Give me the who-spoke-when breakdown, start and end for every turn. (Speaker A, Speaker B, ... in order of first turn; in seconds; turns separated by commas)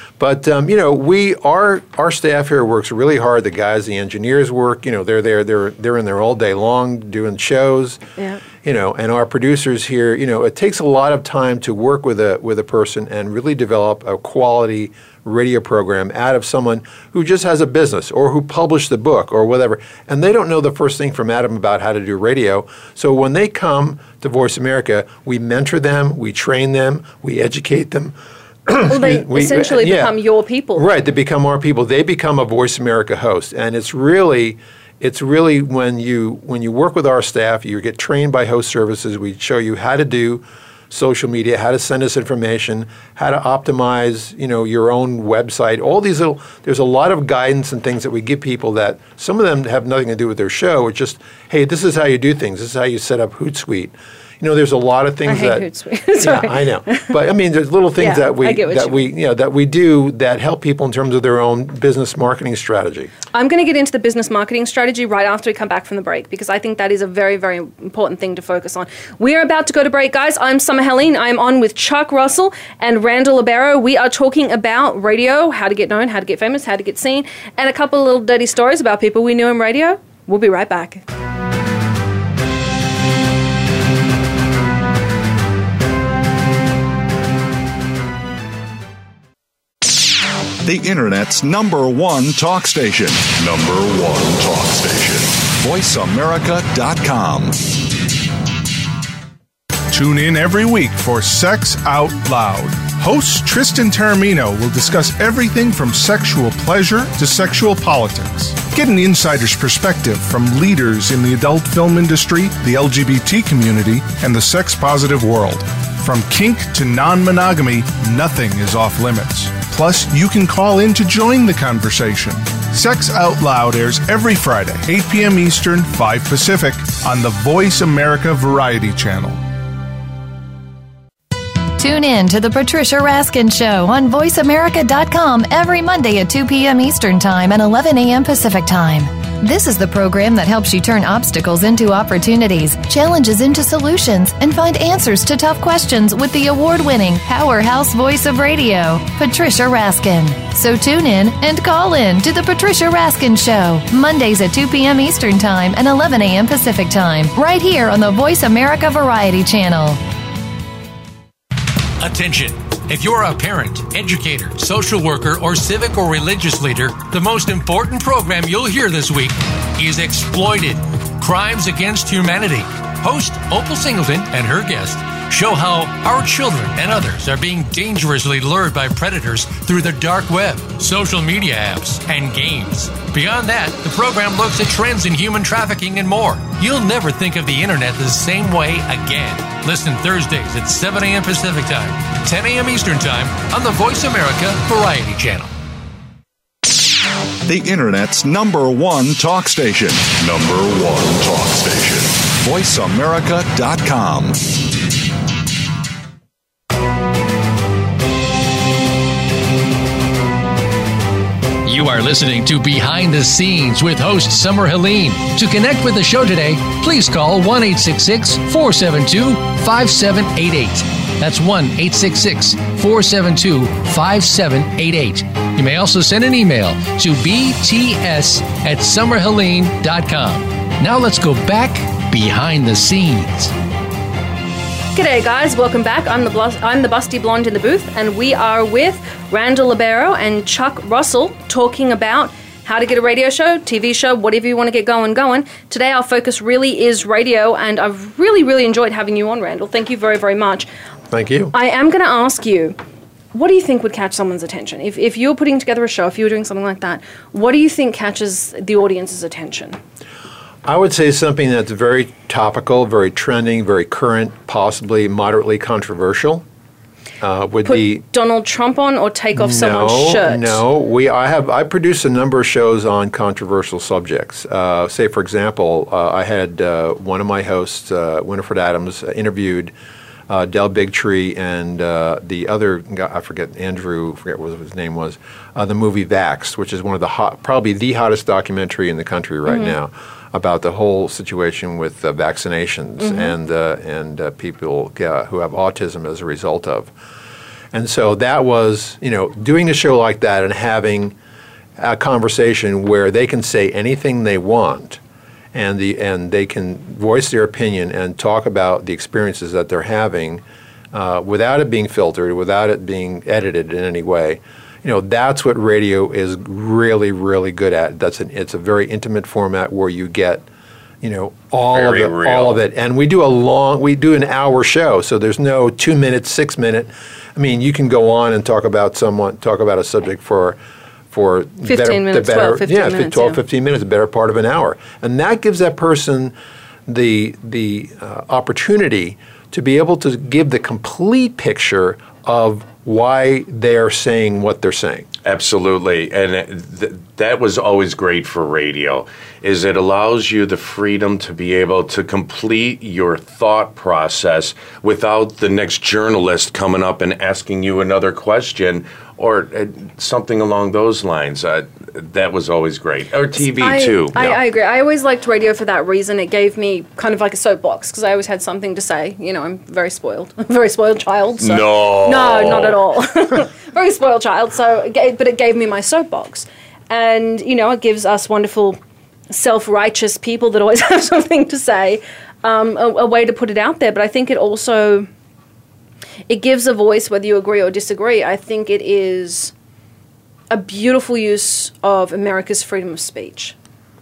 Speaker A: 0.2-8.0, Speaker B: 8.2-8.4, Speaker A: 8.6-28.1, Speaker A: 28.6-30.1, Speaker B: 28.9-30.9, Speaker A: 30.8-55.6, Speaker B: 55.2-57.1, Speaker A: 56.2-63.1, Speaker B: 58.0-59.1, Speaker B: 63.3-81.0, Speaker C: 90.6-97.6, Speaker D: 99.9-129.4, Speaker E: 131.8-160.0, Speaker F: 162.0-195.5, Speaker C: 197.4-204.4, Speaker F: 211.6-233.5, Speaker B: 234.9-250.7, Speaker A: 251.1-251.5, Speaker B: 251.5-252.8, Speaker B: 253.3-259.8, Speaker A: 260.6-266.4, Speaker A: 267.2-268.0, Speaker B: 267.6-270.6, Speaker A: 269.3-279.7, Speaker A: 280.3-296.9, Speaker B: 289.5-289.7, Speaker B: 293.0-293.3, Speaker A: 297.7-301.1, Speaker A: 301.8-305.0, Speaker A: 305.5-310.4, Speaker A: 310.9-320.4, Speaker A: 321.0-330.6, Speaker G: 321.7-322.6, Speaker A: 331.1-336.3, Speaker B: 331.6-333.4, Speaker A: 336.9-345.1, Speaker G: 345.2-364.4, Speaker B: 363.5-378.8, Speaker G: 371.4-372.8, Speaker B: 379.3-385.1, Speaker B: 386.3-389.5, Speaker B: 390.5-393.5